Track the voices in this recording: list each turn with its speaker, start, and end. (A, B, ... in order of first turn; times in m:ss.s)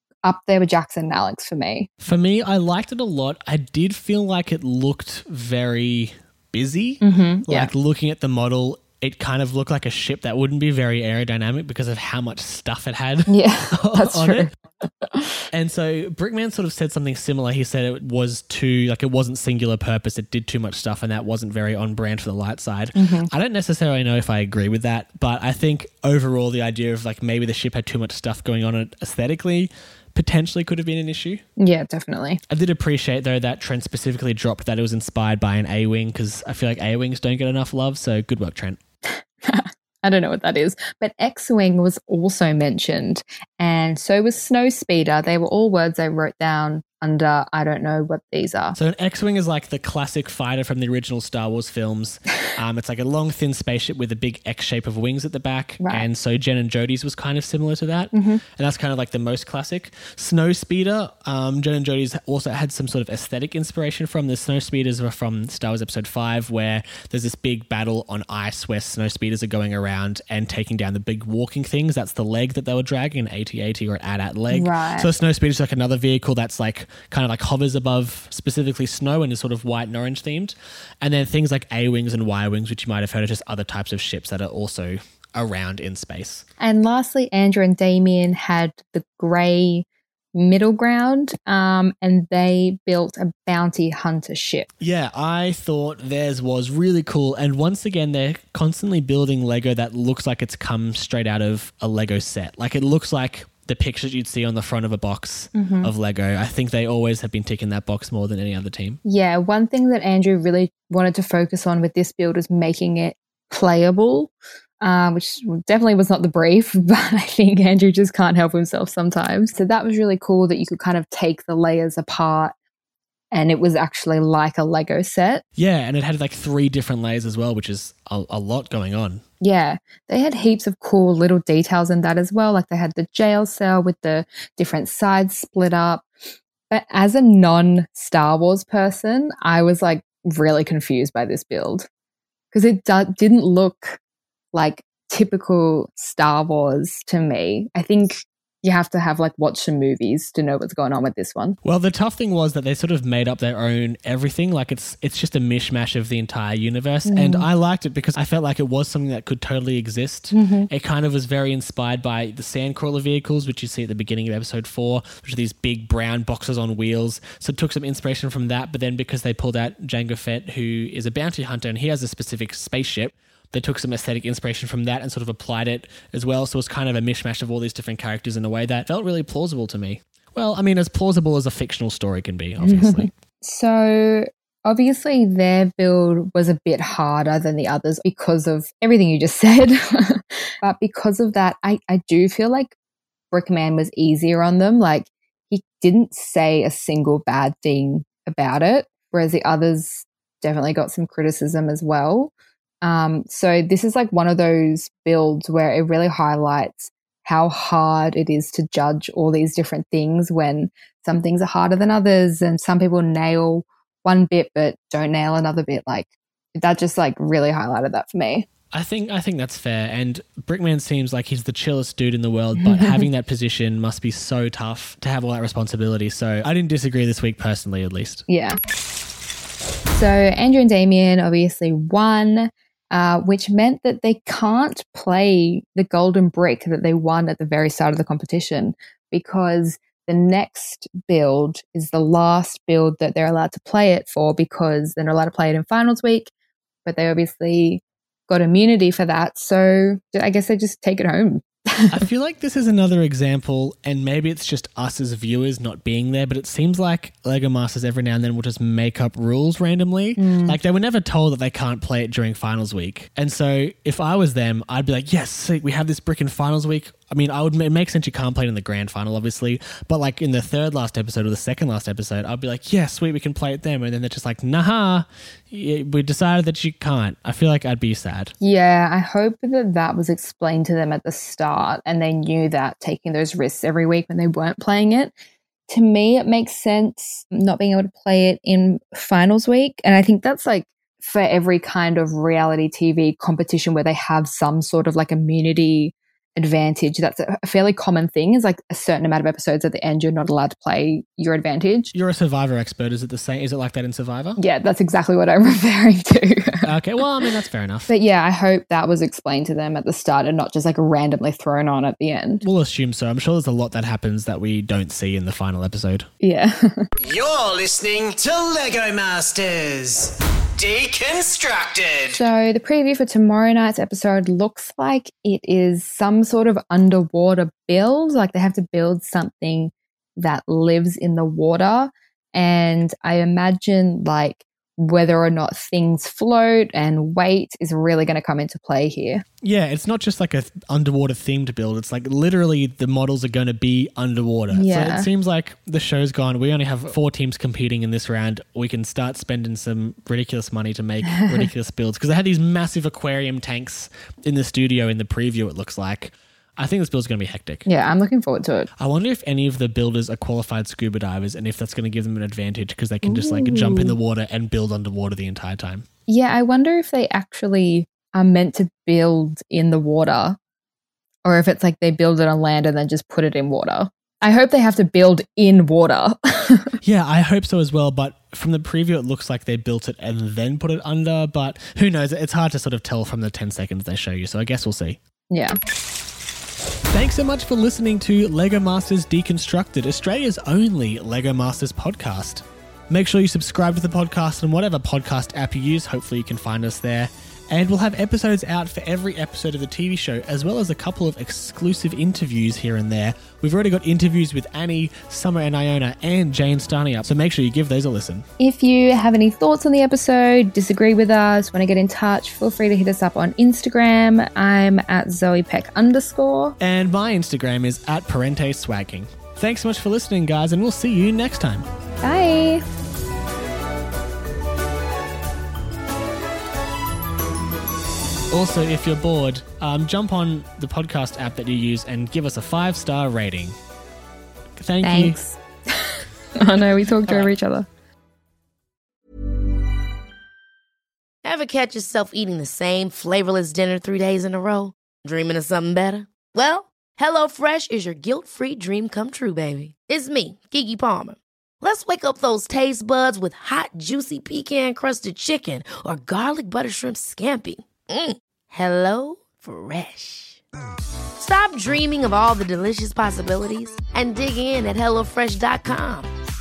0:00.2-0:01.9 A
0:02.0-0:14.5 B
0:07.0-0:07.7 A
0:13.3-0:15.4 A
0:15.5-0:31.4 B
0:22.9-0:23.3 A
0:31.6-0:32.4 A
0:32.5-0:38.8 B
0:39.1-0:48.8 A
0:48.7-1:26.4 B
0:55.8-0:56.1 A
0:58.1-0:58.4 A
1:14.5-1:15.1 A
1:26.6-1:34.7 A
1:34.8-1:49.0 B
1:45.5-1:45.9 A
1:49.0-2:02.5 A
2:03.3-2:05.4 A
2:05.6-2:09.2 B
2:09.4-2:16.1 A
2:16.7-2:21.9 A
2:22.5-2:24.0 A
2:24.5-2:31.6 A
2:31.6-3:03.1 B
2:37.0-2:37.5 A
2:40.3-2:40.7 A
3:02.6-3:12.7 A
3:13.3-3:38.4 A
3:38.7-3:48.2 B
3:42.6-3:43.0 A
3:48.3-3:48.6 A
3:49.9-4:06.3 A
4:06.8-4:12.0 A
4:11.9-4:38.3 B
4:20.2-4:20.6 A
4:38.4-4:45.1 A
4:45.7-5:01.9 A
5:01.9-5:04.4 B
5:04.4-5:06.7 A
5:06.6-5:07.9 B
5:07.9-5:12.4 A
5:12.4-5:16.1 B
5:16.2-5:16.8 A
5:17.0-5:22.2 C
5:22.1-5:39.2 A
5:39.4-5:57.6 B
5:44.5-5:45.1 A
5:51.1-5:51.5 A
5:57.6-5:58.7 A
5:58.8-6:05.8 B
6:03.0-6:04.0 A
6:06.1-6:10.4 A
6:11.2-6:16.8 A
6:16.8-6:25.0 B
6:25.3-6:25.6 A
6:26.9-6:48.2 B
6:48.4-6:56.6 A
6:56.6-7:01.7 B
7:02.0-7:02.6 A
7:08.3-7:13.5 B
7:14.6-7:15.2 B
7:14.8-7:17.7 A
7:17.1-7:17.3 B
7:21.2-7:40.4 D
7:41.2-7:46.1 D